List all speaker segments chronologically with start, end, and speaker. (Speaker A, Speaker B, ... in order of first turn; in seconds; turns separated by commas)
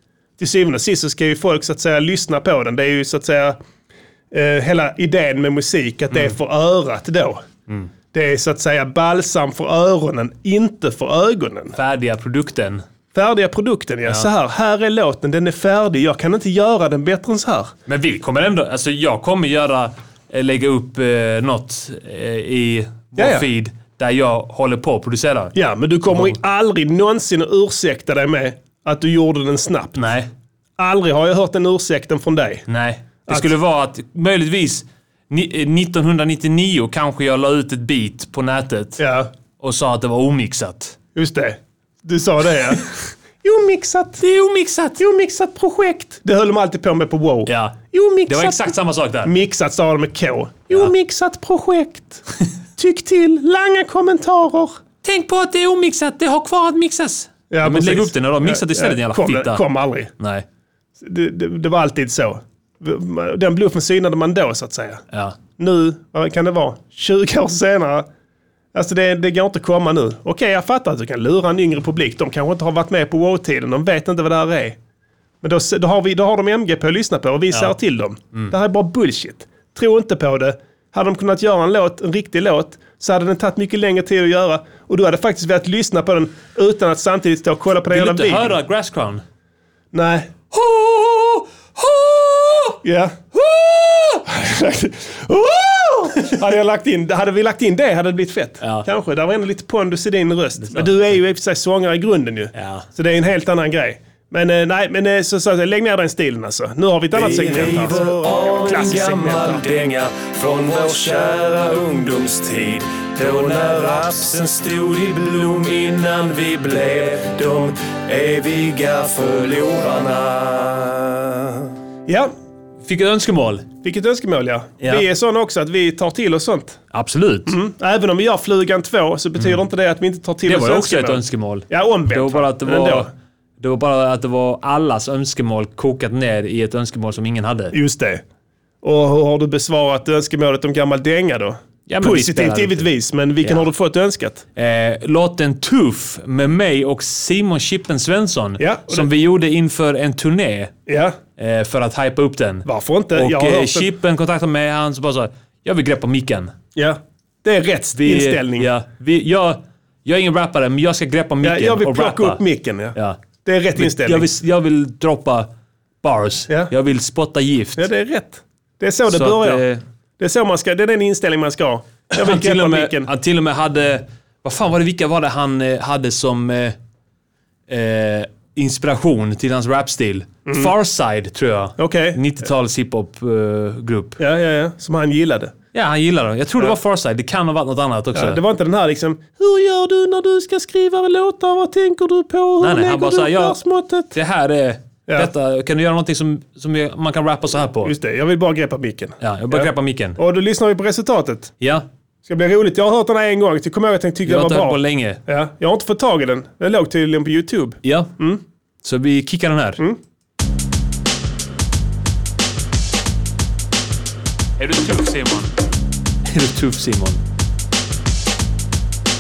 Speaker A: 0.4-3.6, Speaker A: 4.3-7.4, Speaker A: 8.1-11.8, Speaker B: 11.8-12.8, Speaker A: 13.1-17.7, Speaker B: 17.9-25.5, Speaker A: 23.2-23.4, Speaker A: 25.5-30.0, Speaker B: 26.1-26.4, Speaker B: 29.9-30.3, Speaker A: 30.8-32.6, Speaker B: 32.7-39.0, Speaker A: 33.3-33.5, Speaker A: 39.0-39.3, Speaker B: 39.6-41.0, Speaker A: 41.1-44.2, Speaker B: 44.2-45.0, Speaker A: 45.0-52.2, Speaker B: 47.5-49.3, Speaker A: 52.8-54.8, Speaker B: 55.0-59.6, Speaker A: 57.5-60.1, Speaker B: 60.2-60.4, Speaker A: 61.0-65.0, Speaker B: 65.1-65.4, Speaker A: 65.6-68.1, Speaker A: 68.7-74.8, Speaker A: 75.4-88.6, Speaker B: 87.9-89.2, Speaker A: 89.9-90.3, Speaker B: 90.5-92.8, Speaker A: 92.8-109.6, Speaker B: 98.6-98.9, Speaker B: 100.6-101.1, Speaker B: 102.5-102.9, Speaker C: 107.1-121.1, Speaker A: 122.1-122.3, Speaker B: 122.8-123.7, Speaker A: 123.8-126.8, Speaker B: 126.9-127.5, Speaker A: 127.5-133.1, Speaker B: 130.4-137.7, Speaker A: 137.7-138.2, Speaker A: 138.8-144.4, Speaker B: 141.9-142.9, Speaker B: 143.4-143.7, Speaker B: 144.6-150.7, Speaker A: 148.6-149.1, Speaker A: 150.9-151.2, Speaker B: 151.4-156.5, Speaker A: 152.6-153.9, Speaker A: 156.8-158.7, Speaker B: 157.9-162.4, Speaker A: 161.4-164.3, Speaker B: 163.8-165.5, Speaker B: 166.0-167.8, Speaker A: 166.5-166.7, Speaker A: 167.8-169.6, Speaker B: 169.1-169.8, Speaker A: 170.2-173.1, Speaker B: 172.2-176.8, Speaker B: 177.7-184.2, Speaker A: 180.4-180.7, Speaker A: 181.8-182.2, Speaker A: 184.2-185.5, Speaker B: 185.7-188.4, Speaker A: 188.1-194.1, Speaker B: 192.6-193.6, Speaker B: 194.1-197.9, Speaker A: 197.8-201.5, Speaker B: 199.2-200.2, Speaker A: 202.2-208.4, Speaker B: 204.2-205.2, Speaker B: 207.8-208.1, Speaker B: 208.8-209.8, Speaker B: 214.6-215.5, Speaker B: 216.3-217.2